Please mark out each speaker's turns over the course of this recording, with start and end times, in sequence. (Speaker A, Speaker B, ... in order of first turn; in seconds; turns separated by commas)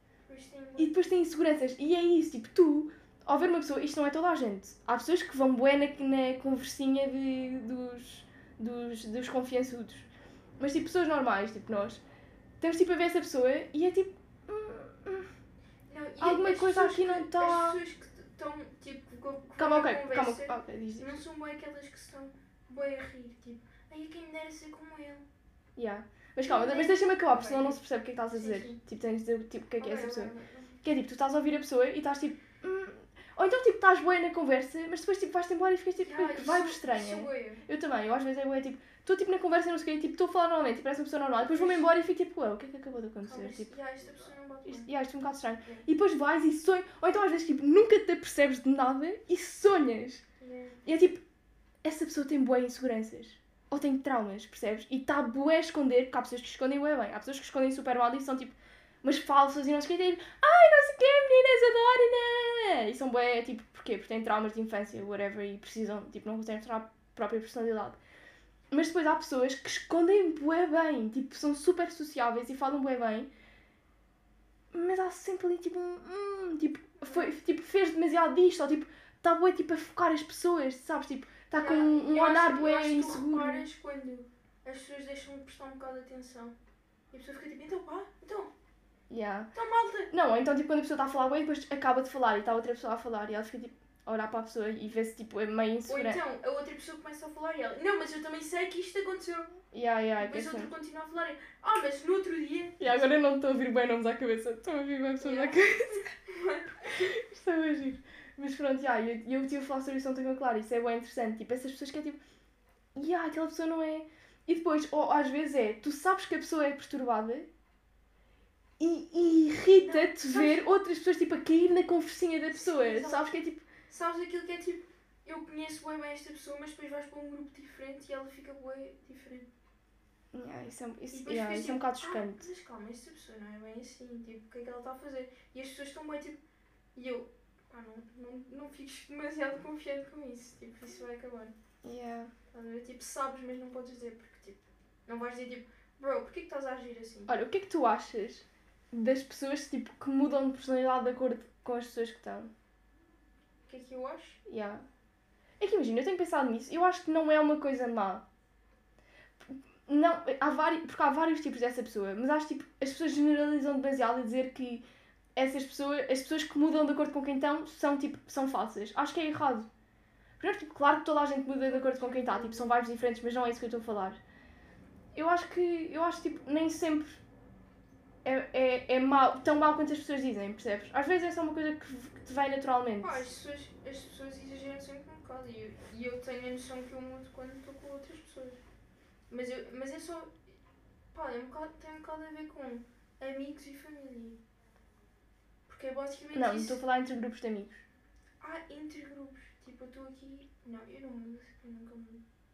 Speaker A: 0.3-1.0, Speaker B: 0.8-10.1, Speaker B: 10.6-12.0, Speaker B: 12.6-15.3, Speaker A: 15.9-25.2, Speaker B: 16.2-17.8, Speaker B: 19.6-21.1, Speaker B: 25.8-30.3, Speaker A: 26.4-28.8, Speaker A: 29.8-30.8, Speaker B: 30.8-43.7, Speaker A: 36.0-37.6, Speaker A: 41.4-41.9, Speaker A: 43.2-44.9, Speaker B: 44.6-50.2, Speaker A: 50.4-50.8, Speaker B: 50.9-51.2, Speaker B: 51.8-68.0, Speaker B: 68.7-73.3, Speaker B: 74.7-83.7, Speaker A: 77.0-77.3, Speaker A: 81.5-86.5, Speaker A: 87.1-88.5, Speaker B: 89.1-89.5, Speaker A: 89.5-90.1, Speaker B: 90.1-96.2, Speaker A: 95.9-99.5, Speaker B: 99.7-100.7, Speaker A: 100.2-103.1, Speaker B: 102.8-106.1, Speaker A: 105.2-107.1, Speaker B: 106.9-112.2, Speaker B: 112.9-117.5, Speaker B: 118.8-123.6, Speaker A: 119.7-120.6, Speaker A: 122.5-123.3, Speaker A: 123.9-129.5, Speaker B: 130.3-132.4, Speaker A: 131.1-136.4, Speaker A: 136.9-141.6, Speaker B: 141.8-142.3, Speaker A: 142.5-147.3, Speaker B: 147.3-152.5, Speaker A: 153.7-154.4, Speaker B: 154.4-154.8, Speaker B: 155.6-158.2, Speaker B: 159.5-164.8, Speaker B: 165.3-169.7, Speaker B: 170.4-174.2, Speaker A: 171.6-172.7, Speaker B: 175.1-177.2, Speaker B: 178.2-183.2, Speaker A: 183.0-188.6, Speaker A: 189.3-190.3, Speaker A: 191.1-194.4, Speaker A: 195.7-196.8, Speaker B: 196.3-197.8, Speaker A: 198.4-202.2